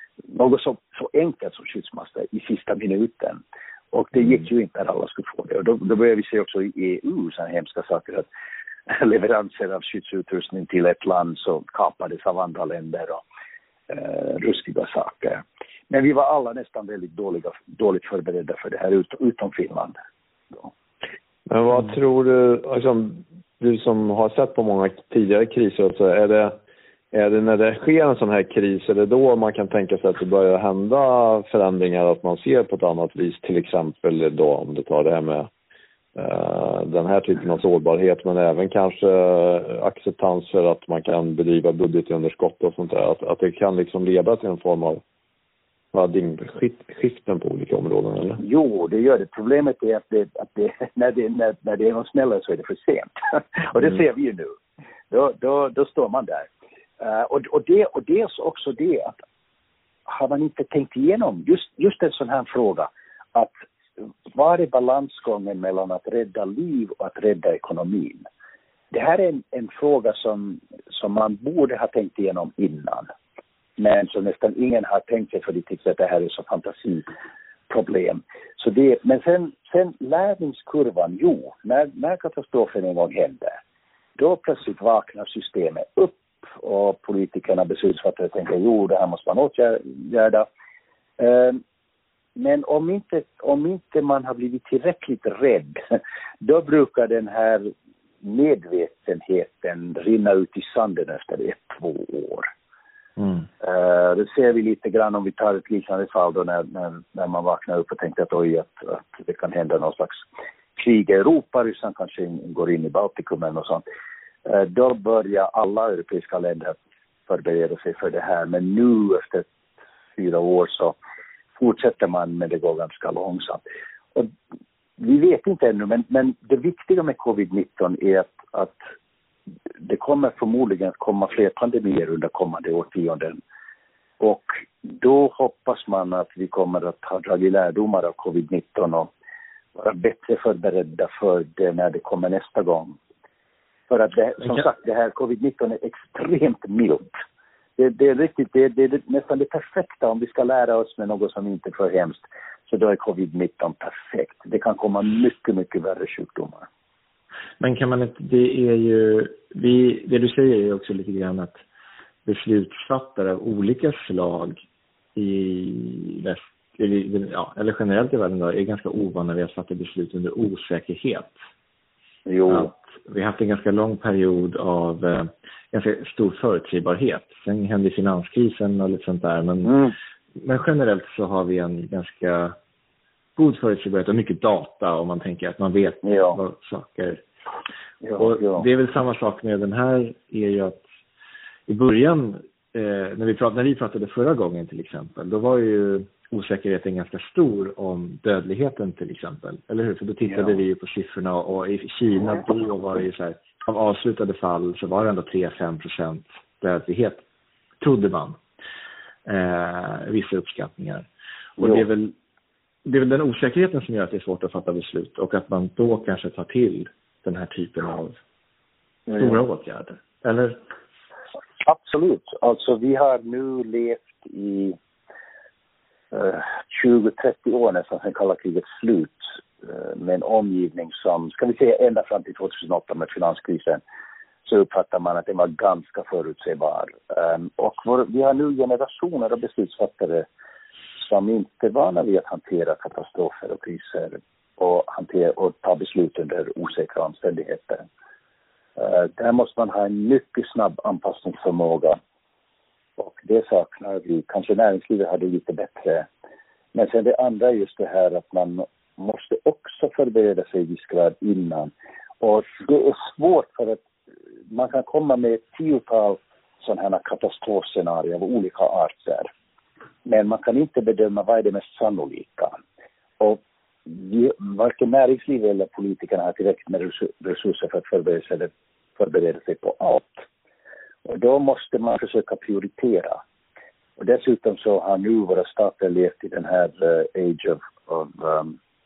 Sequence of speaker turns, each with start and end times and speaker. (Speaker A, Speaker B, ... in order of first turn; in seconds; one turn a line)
Speaker A: 0.3-8.2
Speaker A: 8.9-13.2
Speaker A: 13.9-19.9
Speaker B: 21.5-26.6
Speaker B: 27.1-35.5
Speaker B: 36.1-45.0
Speaker B: 45.9-48.4
Speaker A: 48.4-54.5
Speaker A: 55.1-56.5
Speaker A: 57.0-59.1
Speaker A: 60.1-63.5
Speaker A: 64.3-68.2
Speaker A: 68.9-73.1
Speaker A: 73.8-77.1
Speaker A: 77.7-83.6
Speaker A: 84.2-90.5
Speaker A: 91.2-91.6
Speaker A: 92.3-97.7
Speaker A: 98.2-102.5
Speaker A: 103.6-110.2
Speaker A: 110.8-113.8
Speaker A: 114.5-116.7
Speaker A: 117.3-119.5
Speaker A: 120.2-121.0
Speaker A: 121.5-123.6
Speaker A: 125.0-128.8
Speaker A: 129.8-133.4
Speaker A: 134.2-139.1
Speaker A: 139.7-143.0
Speaker A: 143.9-147.1
Speaker A: 147.8-156.7
Speaker C: 157.6-161.6
Speaker C: 162.2-164.6
Speaker C: 165.2-171.3
Speaker A: 172.2-172.7
Speaker C: 172.5-182.6
Speaker A: 179.7-179.9
Speaker C: 183.3-187.2
Speaker A: 186.0-186.4
Speaker A: 188.0-188.6
Speaker C: 188.2-190.8
Speaker C: 191.7-207.2
Speaker C: 207.8-208.4
Speaker C: 209.2-211.1
Speaker C: 211.6-212.1
Speaker C: 212.8-218.2
Speaker A: 219.1-219.4
Speaker C: 219.1-220.6
Speaker A: 221.6-224.8
Speaker A: 226.1-233.8
Speaker A: 234.4-240.2
Speaker A: 241.0-247.8
Speaker A: 248.8-252.0
Speaker A: 253.0-256.1
Speaker A: 256.7-263.8
Speaker A: 264.5-269.3
Speaker A: 270.0-272.6
Speaker A: 273.2-280.2
Speaker A: 281.0-283.2
Speaker A: 284.0-288.6